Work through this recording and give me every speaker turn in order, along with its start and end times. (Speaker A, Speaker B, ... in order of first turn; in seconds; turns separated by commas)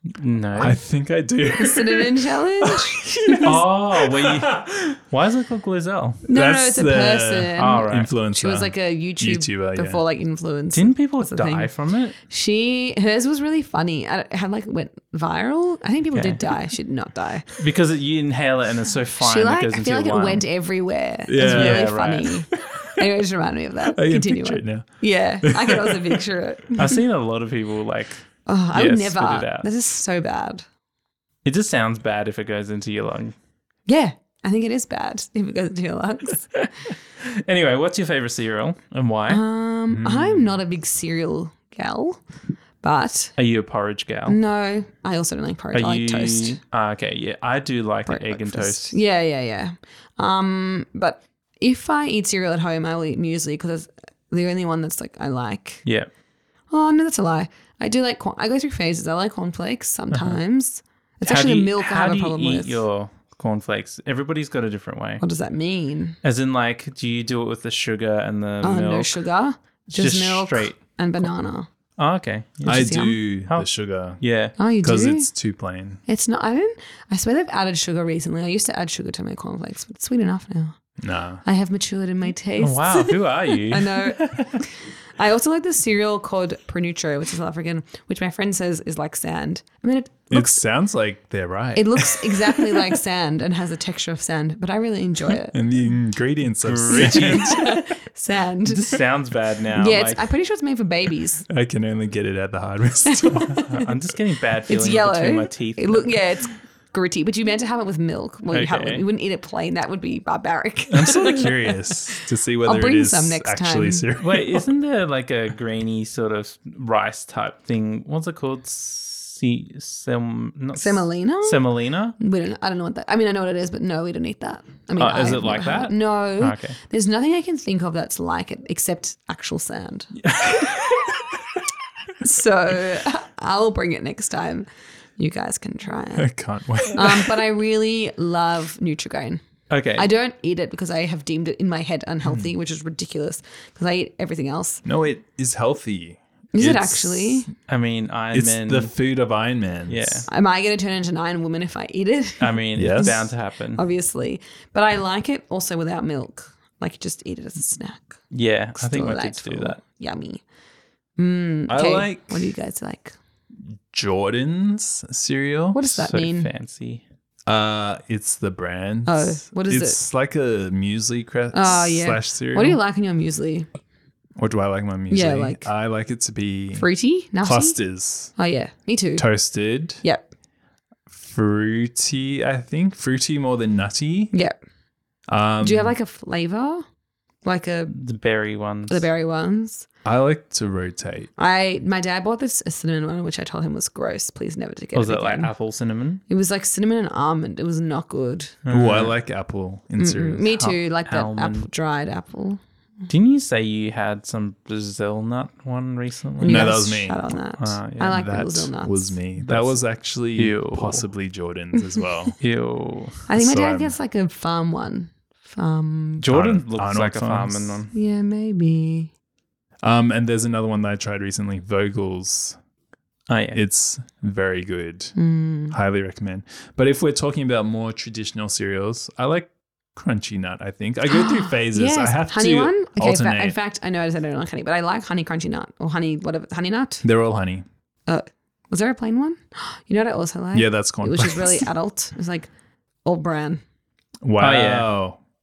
Speaker A: 0.2-0.8, Speaker B: 0.6-5.0, Speaker C: 1.6-3.6, Speaker A: 3.4-6.2, Speaker C: 6.3-17.5, Speaker B: 6.3-10.0, Speaker A: 7.6-8.1, Speaker A: 10.7-12.2, Speaker A: 16.1-16.5, Speaker A: 17.6-20.4, Speaker C: 19.2-27.0, Speaker B: 21.3-23.0, Speaker A: 21.5-22.4, Speaker B: 23.9-24.9, Speaker B: 25.4-26.2, Speaker A: 26.8-29.7, Speaker C: 28.5-30.6, Speaker A: 31.4-33.3, Speaker C: 33.9-36.5, Speaker A: 37.2-39.4, Speaker C: 39.3-42.2, Speaker B: 39.9-40.6, Speaker C: 42.8-43.3, Speaker A: 43.4-44.4, Speaker C: 44.3-46.6, Speaker A: 45.7-49.0, Speaker C: 48.1-55.8, Speaker C: 56.7-62.8, Speaker A: 60.1-60.4, Speaker A: 61.2-65.2, Speaker C: 65.2-66.2, Speaker A: 66.2-69.2, Speaker C: 68.6-71.7, Speaker A: 69.9-71.3, Speaker A: 72.0-73.7, Speaker C: 72.7-73.2, Speaker B: 72.7-74.2, Speaker A: 74.2-74.6, Speaker C: 74.6-75.3, Speaker B: 74.8-76.0, Speaker C: 76.1-80.8, Speaker B: 81.0-81.4, Speaker C: 81.4-90.6, Speaker A: 82.6-84.5, Speaker B: 90.3-93.0, Speaker C: 91.8-95.5, Speaker B: 95.5-97.7, Speaker A: 96.6-97.8, Speaker C: 96.9-99.0, Speaker A: 98.7-100.3, Speaker C: 99.8-101.5, Speaker B: 101.5-103.7, Speaker C: 103.1-103.9, Speaker A: 103.7-106.2, Speaker C: 104.7-114.1, Speaker A: 108.5-109.0, Speaker B: 110.9-114.6, Speaker A: 114.2-122.2, Speaker C: 120.8-130.1, Speaker A: 125.0-126.8, Speaker A: 130.2-131.3, Speaker C: 132.2-134.7, Speaker C: 135.2-136.3, Speaker B: 136.2-137.4, Speaker C: 136.9-139.4, Speaker A: 139.7-140.1, Speaker C: 139.9-144.8, Speaker B: 144.8-147.5, Speaker C: 146.5-147.5, Speaker A: 147.7-148.9, Speaker B: 148.3-150.2, Speaker A: 149.9-150.3, Speaker C: 150.3-158.2, Speaker A: 152.4-153.8, Speaker B: 152.8-153.3, Speaker A: 158.3-159.8, Speaker C: 158.8-160.4, Speaker C: 161.2-163.2, Speaker B: 161.7-162.5, Speaker B: 163.9-165.8, Speaker C: 165.7-166.5, Speaker A: 165.8-167.0, Speaker B: 167.4-172.8, Speaker C: 169.1-170.0, Speaker C: 171.5-173.7, Speaker B: 174.4-176.9, Speaker C: 175.1-175.7, Speaker C: 176.7-177.8, Speaker B: 177.4-178.3, Speaker C: 178.3-179.3, Speaker B: 179.2-180.0, Speaker C: 180.0-180.3, Speaker B: 181.1-184.3, Speaker B: 185.3-185.9, Speaker C: 185.6-186.8, Speaker C: 187.4-187.9, Speaker A: 187.9-189.1, Speaker C: 188.9-189.9, Speaker B: 190.1-191.3, Speaker C: 191.4-195.5, Speaker A: 194.9-196.2, Speaker C: 196.3-198.5, Speaker A: 198.7-199.2, Speaker B: 198.7-200.5, Speaker C: 200.0-202.6, Speaker A: 200.6-201.7, Speaker A: 203.1-206.8, Speaker B: 206.4-207.3, Speaker C: 206.4-209.2, Speaker A: 207.6-208.2, Speaker B: 208.1-212.4, Speaker A: 209.4-209.8, Speaker A: 210.3-211.0, Speaker A: 212.4-213.2, Speaker C: 213.3-216.3, Speaker B: 213.3-213.9, Speaker A: 216.2-217.9, Speaker B: 216.3-217.8, Speaker C: 217.9-219.1, Speaker B: 219.8-222.6, Speaker A: 223.3-223.6, Speaker B: 223.5-225.2, Speaker C: 225.2-225.8, Speaker B: 225.7-233.6, Speaker C: 231.1-237.0, Speaker B: 237.0-237.7, Speaker C: 238.1-242.5, Speaker B: 240.5-241.7, Speaker C: 243.0-243.6, Speaker B: 244.2-245.2, Speaker A: 244.4-244.9